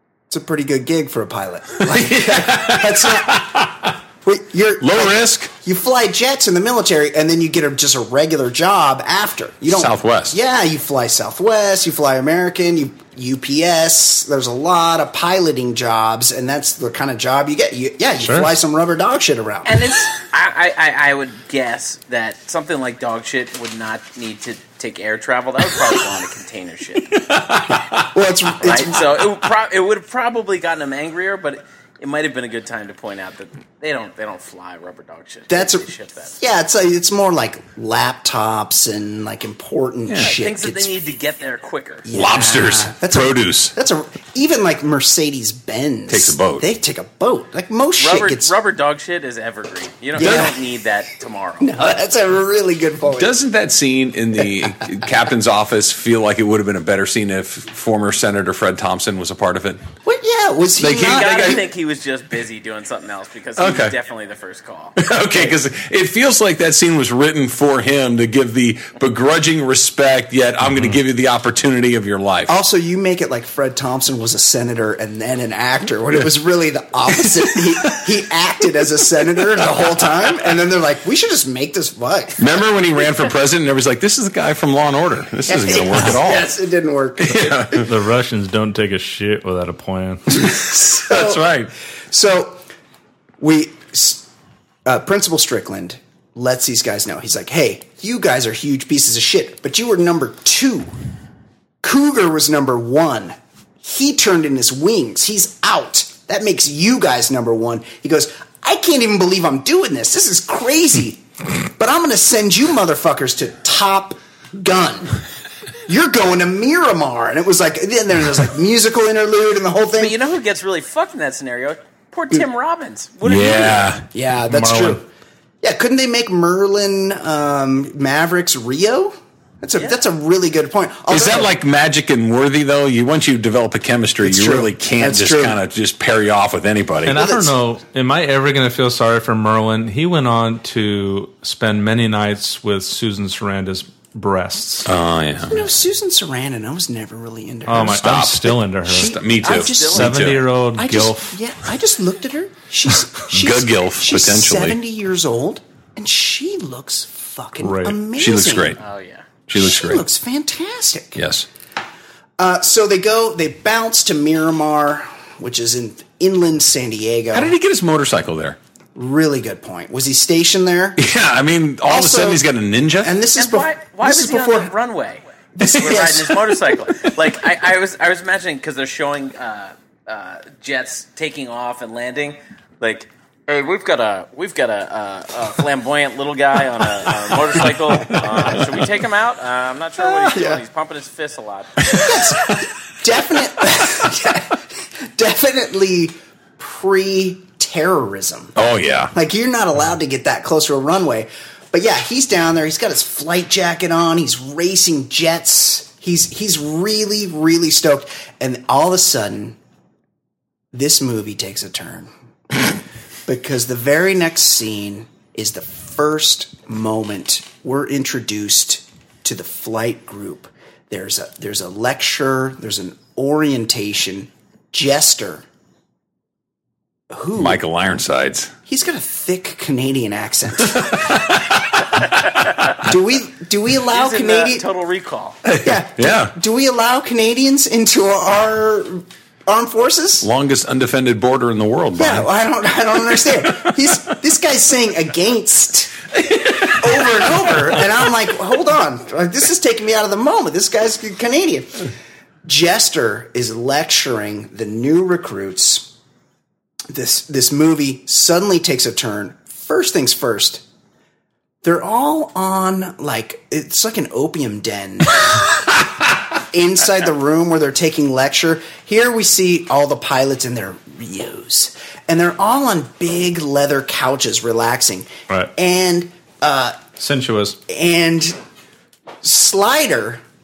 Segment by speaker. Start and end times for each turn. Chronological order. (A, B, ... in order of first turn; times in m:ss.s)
0:00.3-0:03.7 A
0:01.8-0:03.9 B
0:04.2-0:19.8 A
0:04.8-0:05.5 B
0:09.7-0:10.4 B
0:18.2-0:18.5 C
0:19.6-0:27.2 D
0:27.2-0:28.1 B
0:28.1-0:29.0 A
0:28.6-0:36.4 D
0:35.5-0:40.9 A
0:40.2-0:42.1 D
0:42.0-0:48.5 A
0:42.1-0:43.7 B
0:46.1-0:46.7 B
0:48.0-0:51.7 D
0:50.2-0:50.6 A
0:50.2-0:50.5 B
0:51.6-0:53.4 A
0:53.2-0:59.8 B
1:00.0-1:01.7 A
1:00.8-1:01.6 B
1:01.0-1:05.0 D
1:03.6-1:03.9 B
1:05.0-1:12.6 B
1:12.5-1:22.4 A
1:22.4-1:26.5 B
1:25.5-1:27.9 A
1:27.2-1:27.9 B
1:27.9-1:30.2 C
1:30.3-1:31.5 A
1:30.4-1:31.7 B
1:32.1-1:32.6 A
1:33.4-1:34.3 A
1:34.8-1:40.9 A
1:41.8-1:55.2 A
1:55.9-2:00.2 A
2:00.0-2:04.0 D
2:03.2-2:04.0 B
2:04.1-2:05.0 A
2:04.5-2:05.0 C
2:05.6-2:11.6 A
2:11.1-2:17.2 B
2:14.2-2:15.6 A
2:17.1-2:24.9 C
2:17.1-2:17.6 A
2:24.9-2:25.6 B
2:25.4-2:28.2 A
2:27.7-2:29.2 C
2:27.8-2:30.4 B
2:28.8-2:38.8 A
2:29.4-2:30.2 D
2:29.9-2:31.4 C
2:33.3-2:34.8 B
2:37.6-2:38.0 C
2:38.2-2:38.8 B
2:38.8-2:39.2 D
2:39.5-2:40.0 B
2:39.5-2:41.2 A
2:41.2-2:41.5 B
2:42.4-2:47.6 A
2:47.3-2:48.6 B
2:49.0-2:51.0 A
2:51.0-2:53.2 B
2:51.8-2:52.4 A
2:53.0-2:54.7 A
2:53.4-3:11.9 D
2:55.6-2:56.5 A
2:55.7-2:56.0 B
3:08.0-3:08.6 A
3:10.0-3:10.6 A
3:11.9-3:18.6 A
3:18.6-3:19.1 B
3:19.1-3:29.6 A
3:30.7-3:32.8 A
3:33.3-3:45.4 A
3:47.1-3:47.6 A
3:47.4-3:48.5 B
3:48.7-3:51.1 A
3:50.8-3:52.2 B
3:52.8-3:54.7 A
3:53.9-3:55.4 D
3:55.4-3:56.3 B
3:55.6-4:00.3 A
4:00.2-4:02.3 B
4:02.0-4:11.9 A
4:06.4-4:06.8 B
4:12.4-4:15.9 A
4:16.9-4:20.6 A
4:21.6-4:36.8 A
4:37.0-4:37.6 C
4:37.7-4:38.4 A
4:39.2-4:40.2 A